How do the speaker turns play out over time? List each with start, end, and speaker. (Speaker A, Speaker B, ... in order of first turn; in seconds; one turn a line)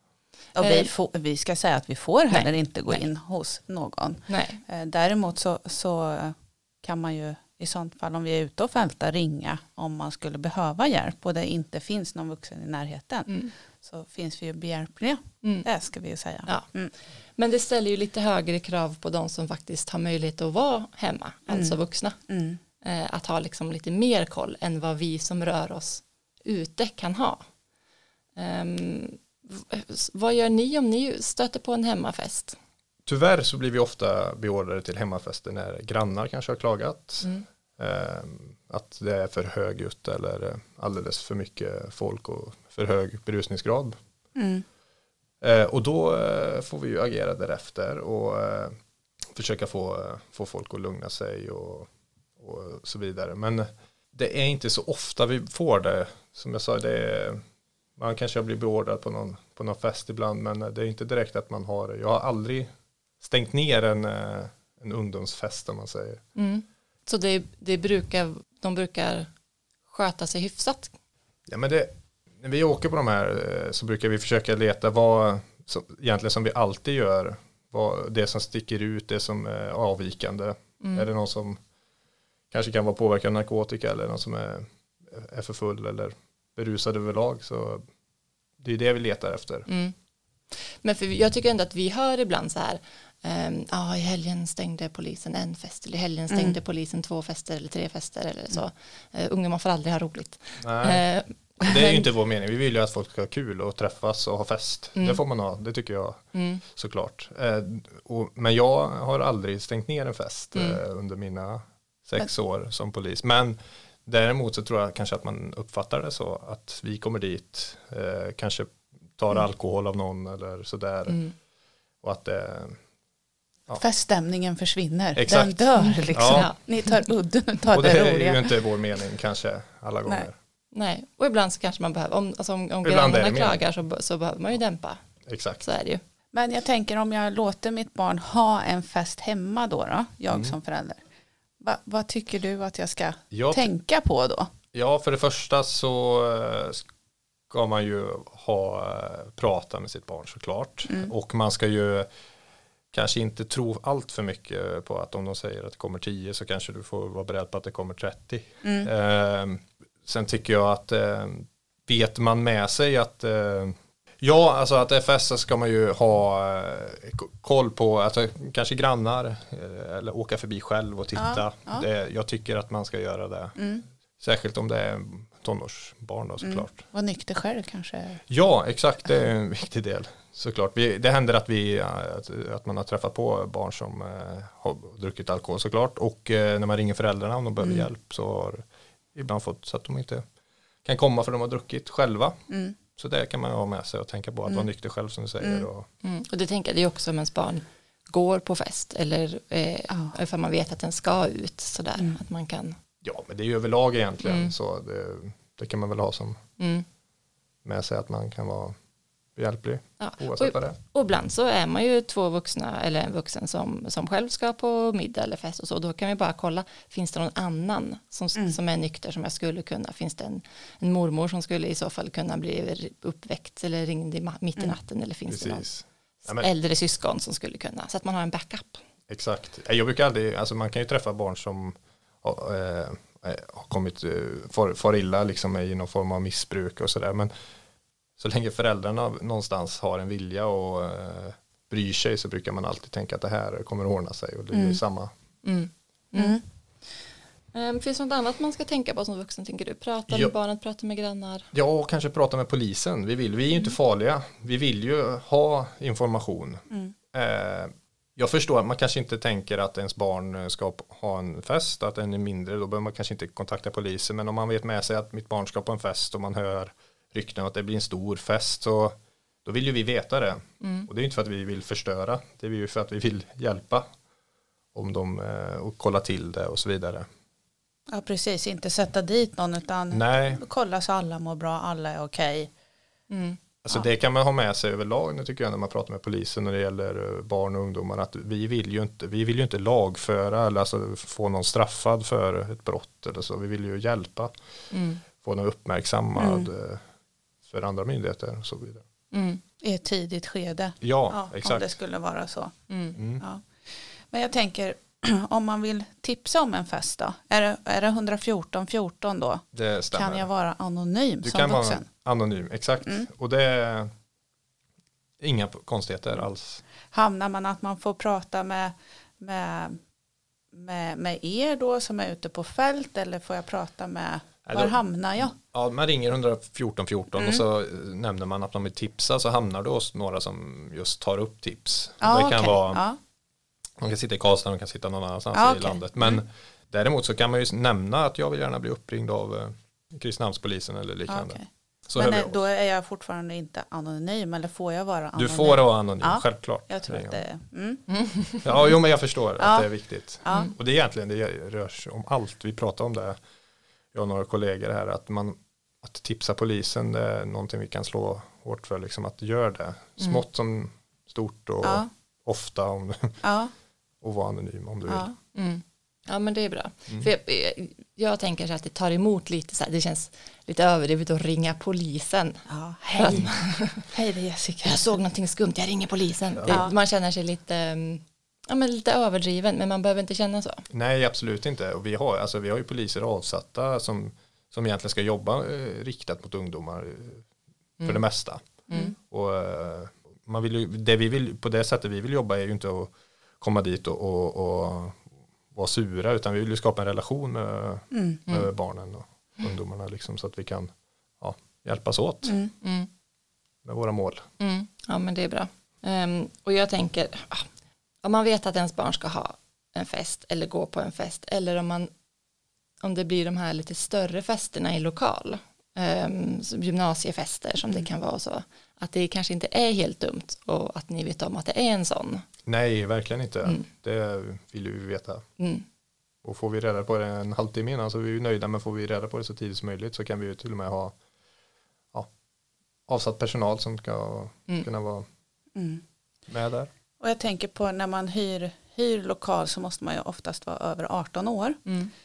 Speaker A: 0.6-0.9
Speaker B: 0.6-16.9
Speaker A: 2.3-3.1
Speaker A: 4.3-4.6
Speaker A: 13.3-13.5
Speaker A: 17.4-22.2
Speaker B: 21.5-22.6
Speaker A: 22.8-27.5
Speaker A: 28.4-32.6
Speaker C: 33.1-44.0
Speaker B: 44.4-44.6
Speaker C: 45.4-57.4
Speaker C: 58.0-66.2
Speaker A: 66.3-69.3
Speaker A: 69.9-70.9
Speaker C: 71.5-81.6
Speaker A: 80.8-81.1
Speaker C: 82.5-87.9
Speaker C: 88.6-89.7
Speaker A: 89.7-89.9
Speaker A: 90.5-102.1
Speaker B: 96.3-96.6
Speaker C: 100.6-101.0
Speaker C: 101.6-121.2
Speaker A: 106.3-106.6
Speaker A: 110.5-110.8
Speaker A: 121.1-121.3
Speaker C: 122.0-122.8
Speaker B: 123.8-128.6
Speaker C: 125.2-126.5
Speaker A: 125.8-126.6
Speaker C: 127.7-130.4
Speaker A: 130.7-135.0
Speaker C: 132.8-133.6
Speaker C: 135.3-135.6
Speaker A: 135.6-136.0
Speaker B: 136.3-141.0
Speaker C: 140.3-140.6
Speaker B: 141.6-144.5
Speaker C: 143.3-143.7
Speaker C: 144.7-146.9
Speaker C: 147.5-152.1
Speaker B: 150.9-151.1
Speaker C: 152.9-173.6
Speaker B: 158.6-158.9
Speaker B: 171.2-171.9
Speaker B: 173.6-173.8
Speaker C: 174.2-176.8
Speaker B: 176.4-178.2
Speaker C: 178.3-190.2
Speaker B: 187.6-187.9
Speaker C: 190.8-192.4
Speaker B: 192.5-192.8
Speaker C: 193.0-195.9
Speaker B: 195.4-195.7
Speaker A: 196.0-202.8
Speaker B: 199.9-200.2
Speaker C: 203.0-206.4
Speaker A: 204.2-204.5
Speaker A: 206.6-206.9
Speaker C: 207.6-208.8
Speaker C: 209.4-210.8
Speaker A: 210.0-225.7
Speaker C: 225.3-226.5
Speaker A: 226.2-228.8
Speaker C: 229.1-237.3
Speaker C: 238.2-245.1
Speaker B: 244.5-244.8
Speaker A: 245.4-246.4
Speaker B: 246.2-246.4
Speaker A: 247.5-251.5
Speaker C: 250.1-250.3
Speaker C: 251.5-273.9
Speaker A: 270.6-270.9
Speaker C: 274.7-277.1
Speaker B: 277.9-282.5
Speaker C: 279.9-280.4
Speaker A: 283.1-283.4
Speaker C: 283.6-294.3
Speaker A: 294.7-295.0
Speaker C: 295.2-296.8
Speaker B: 296.2-296.5
Speaker C: 297.4-298.9
Speaker A: 299.1-299.4
Speaker B: 299.6-302.6
Speaker C: 300.8-301.7
Speaker A: 302.7-303.0
Speaker C: 303.0-303.2
Speaker B: 303.2-311.9
Speaker C: 309.5-310.3
Speaker C: 311.2-313.9
Speaker C: 315.2-316.6
Speaker B: 316.9-319.8
Speaker B: 320.5-325.4
Speaker C: 324.5-324.8
Speaker C: 325.4-332.8
Speaker B: 327.2-327.4
Speaker B: 332.0-333.0
Speaker C: 333.8-342.4
Speaker B: 335.3-336.2
Speaker B: 341.1-341.4
Speaker B: 342.0-347.9
Speaker C: 345.2-347.2
Speaker A: 347.9-348.4
Speaker C: 348.4-353.2
Speaker B: 349.4-350.5
Speaker C: 353.9-363.2
Speaker B: 361.6-361.9
Speaker B: 363.2-363.5
Speaker C: 364.0-365.1
Speaker B: 364.9-365.1
Speaker A: 365.3-373.9
Speaker B: 372.5-374.9
Speaker A: 374.6-380.6
Speaker C: 376.4-376.6
Speaker C: 380.7-387.3
Speaker C: 387.8-388.5
Speaker A: 388.7-388.9
Speaker C: 389.0-402.4
Speaker B: 397.9-398.2
Speaker B: 402.2-402.5
Speaker A: 402.6-402.9
Speaker C: 403.6-404.3
Speaker A: 404.4-407.5
Speaker A: 408.0-411.9
Speaker A: 412.8-422.3
Speaker C: 422.5-425.3
Speaker A: 423.4-423.7
Speaker A: 425.4-425.6
Speaker C: 426.2-431.0
Speaker C: 432.9-435.1
Speaker B: 435.6-435.8
Speaker C: 436.3-436.7
Speaker B: 437.0-441.7
Speaker A: 441.7-441.9